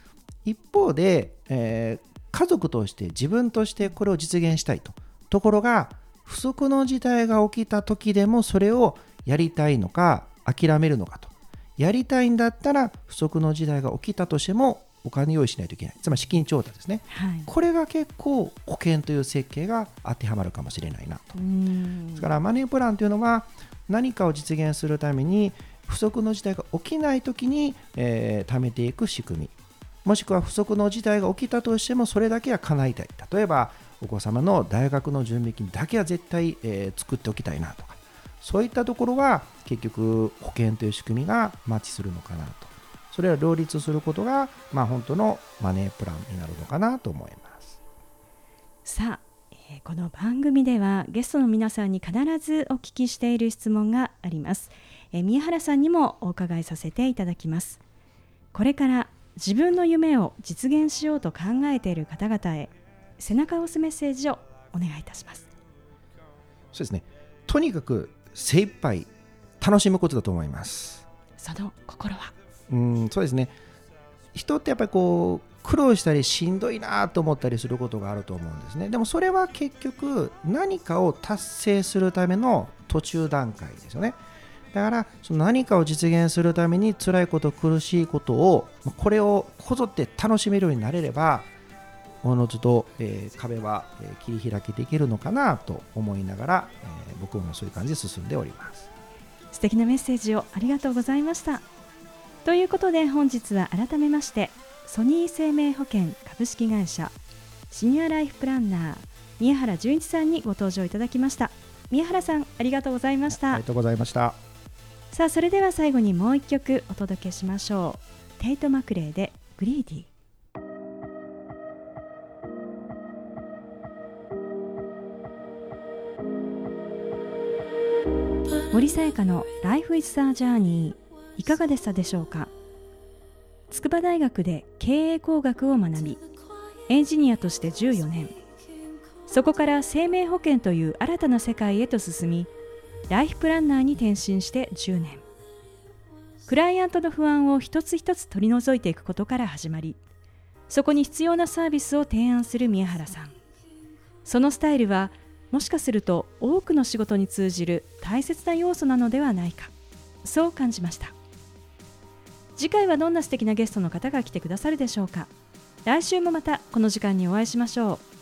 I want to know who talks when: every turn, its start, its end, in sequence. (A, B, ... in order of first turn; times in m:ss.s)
0:00.4-0:21.4 A
0:17.1-0:17.5 B
0:21.4-0:22.3 B
0:22.2-0:29.5 A
0:30.0-0:47.8 A
0:48.9-0:57.8 B
0:58.5-1:05.5 B
1:06.7-1:09.1 A
1:09.6-1:11.1 A
1:11.4-1:12.3 B
1:12.7-1:13.5 A
1:14.3-1:24.2 A
1:24.7-1:31.5 A
1:32.2-1:38.9 A
1:39.5-1:41.6 B
1:42.4-1:47.2 B
1:47.7-1:53.6 B
1:53.3-1:54.4 A
1:55.1-2:00.1 B
2:08.7-2:12.5 B
2:13.7-2:16.2 B
2:16.9-2:18.4 B
2:19.3-2:22.5 B
2:23.1-2:25.2 B
2:26.5-2:30.0 B
2:30.7-2:33.4 B
2:34.2-2:39.7 B
2:40.2-2:41.1 B
2:42.6-2:45.3 B
2:45.8-2:48.0 B